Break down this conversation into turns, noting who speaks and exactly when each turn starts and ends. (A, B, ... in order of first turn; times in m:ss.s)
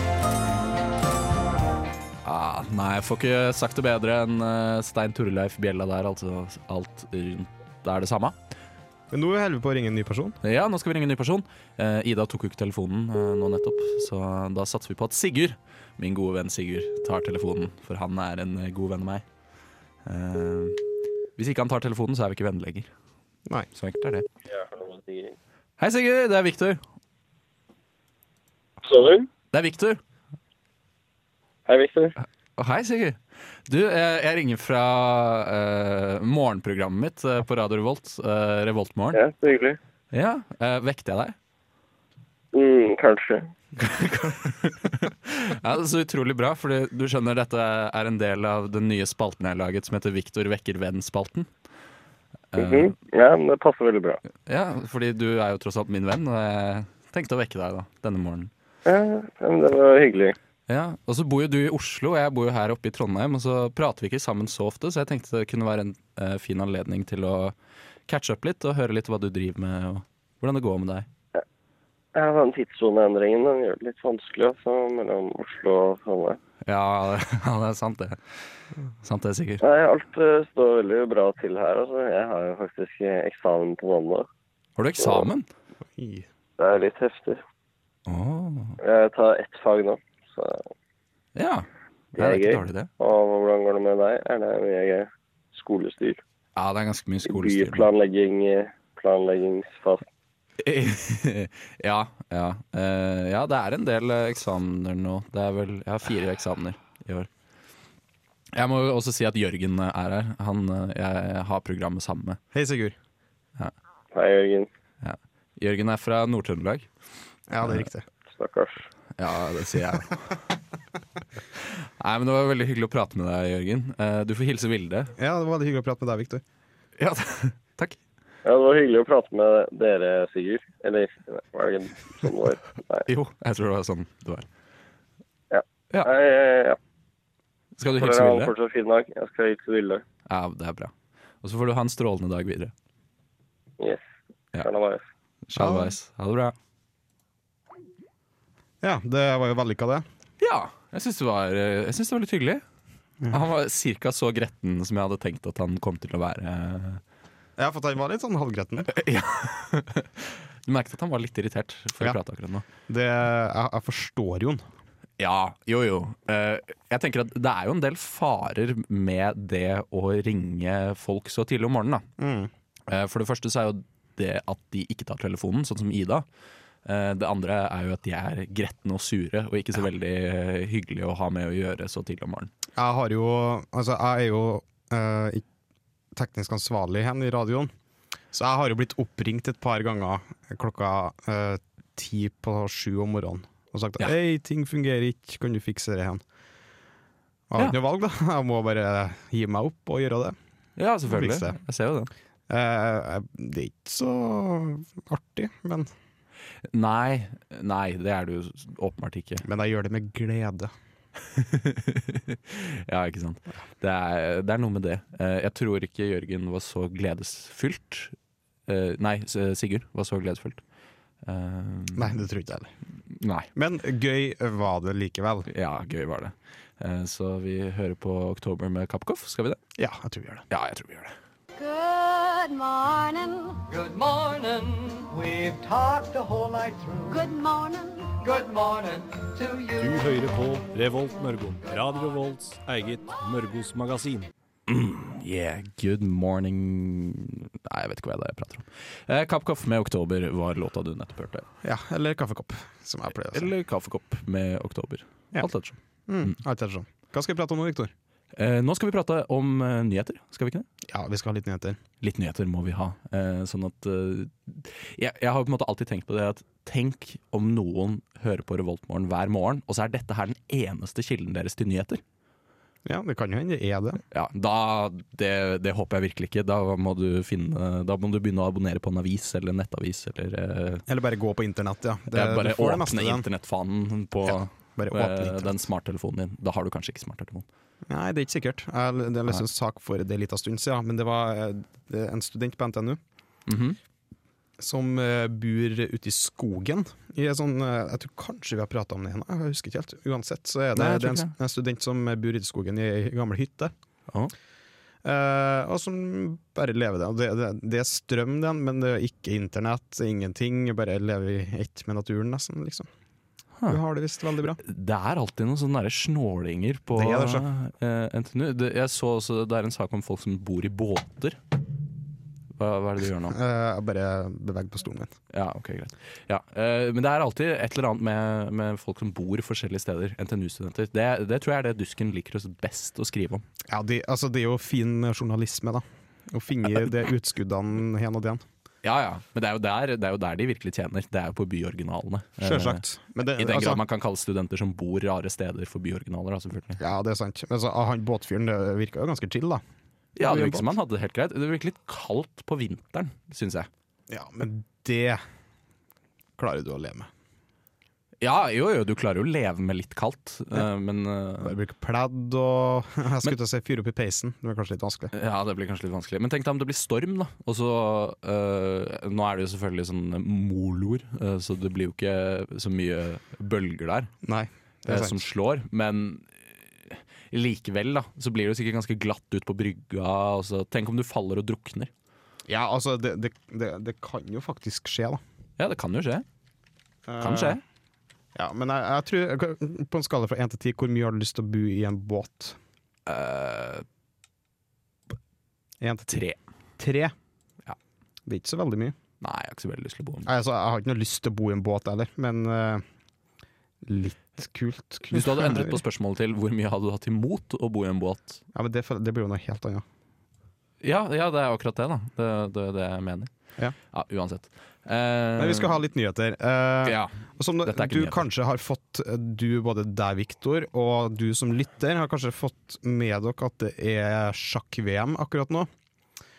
0:02.2-0:08.4 A
0:09.1-0:10.4 B
0:10.4-0:19.2 A
0:20.0-0:20.8 A
0:21.4-0:22.9 A
0:23.7-0:24.2 A
0:24.5-0:25.3 C
0:25.8-0:26.8 A
0:28.8-0:29.3 C
0:29.5-0:30.0 A
0:31.7-0:32.2 C
0:32.6-0:39.2 A
0:39.1-0:39.8 C
0:40.1-0:41.4 A
0:42.5-0:43.5 C
0:43.8-0:51.5 A
0:52.5-0:52.9 A
0:52.6-0:54.2 C
0:54.4-0:58.5 A
0:58.8-1:00.4 C
1:00.7-1:07.5 A
1:08.1-1:11.1 A
1:12.1-1:16.4 C
1:16.6-1:18.4 A
1:19.0-1:19.6 A
1:19.6-1:24.3 C
1:24.8-1:25.5 A
1:26.0-1:26.2 B
1:26.6-1:27.4 C
1:28.1-1:28.8 A
1:28.8-1:30.7 C
1:31.4-1:32.9 A
1:32.2-1:36.2 C
1:36.6-1:37.9 A
1:37.2-1:40.0 C
1:40.6-1:47.3 A
1:48.5-1:52.4 A
1:52.5-1:53.0 B
1:54.1-1:54.7 C
1:55.0-1:56.9 A
1:57.5-1:58.0 B
1:58.3-1:58.8 C
1:59.2-2:00.3 A
2:01.6-2:05.1 A
2:05.2-2:06.4 B
2:07.0-2:08.0 A
2:08.4-2:13.1 C
2:13.1-2:14.5 A
2:15.5-2:16.8 C
2:17.8-2:18.5 A
2:18.0-2:20.0 C
2:20.3-2:20.9 A
2:21.4-2:22.7 A
2:24.6-2:25.0 C
2:25.5-2:26.5 A
2:25.6-2:25.9 B
2:28.8-2:30.1 B
2:30.4-2:32.6 A
2:33.3-2:37.0 A
2:37.6-2:38.9 B
2:38.9-2:42.6 A
2:42.9-2:44.6 B
2:45.2-2:52.1 A
2:52.2-2:52.5 B
2:52.9-2:56.2 A
2:56.8-3:02.5 A
3:02.8-3:05.4 B
3:06.1-3:07.7 B
3:08.3-3:16.2 B
3:17.5-3:20.4 B
3:20.8-3:22.1 A
3:21.0-3:21.6 B
3:22.5-3:25.9 B
3:26.7-3:29.4 A
3:29.4-3:30.7 B
3:31.3-3:38.2 A
3:38.7-3:40.6 A
3:41.2-3:42.2 A
3:41.9-3:42.7 B
3:43.1-3:43.5 A
3:43.5-3:45.5 B
3:45.5-3:49.6 A
3:49.8-3:50.4 B
3:50.5-3:51.1 A
3:51.6-3:53.6 D
3:53.7-3:57.2 E
3:57.1-3:58.2 D
3:58.1-4:00.0 E
3:59.8-4:04.3 F
4:04.7-4:11.4 A
4:11.6-4:13.5 B
4:13.3-4:16.4 A
4:16.1-4:17.9 B
4:18.3-4:20.6 A
4:20.8-4:21.8 B
4:22.0-4:32.0 A
4:32.8-4:34.0 B
4:34.1-4:40.8 A
4:40.9-4:43.2 B
4:42.1-4:47.4 A
4:44.2-4:45.6 B
4:47.9-4:53.0 B
4:53.5-4:53.8 A
4:54.6-5:03.7 B
5:00.7-5:01.3 A
5:05.0-5:12.9 B
5:13.7-5:14.6 B
5:14.6-5:21.4 A
5:16.9-5:17.4 B
5:22.6-5:23.4 A
5:23.3-5:25.1 B
5:25.3-5:33.4 A
5:33.7-5:38.4 B
5:38.8-5:46.8 A
5:42.4-5:43.8 B
5:46.8-5:49.6 B
5:50.2-5:53.7 A
5:50.2-5:50.7 B
5:54.1-5:55.2 B
5:56.4-5:57.1 B
5:58.2-6:01.6 A
6:01.4-6:05.1 B
6:05.1-6:14.1 A
6:14.2-6:15.2 B
6:14.9-6:21.9 A
6:22.5-6:25.2 B
6:25.6-6:26.2 A
6:27.1-6:27.6 B
6:27.2-6:27.6 A
6:28.3-6:32.6 B
6:33.0-6:33.8 A
6:35.8-6:36.2 B
6:36.1-6:36.4 A
6:36.8-6:37.1 B
6:38.2-6:39.0 B
6:39.2-6:40.3 A
6:40.2-6:42.8 B
6:43.8-6:45.8 B
6:45.1-6:48.4 A
6:48.5-6:49.8 B
6:50.8-6:53.3 A
6:53.9-6:55.7 A
6:55.4-7:05.7 B
6:56.8-6:58.3 A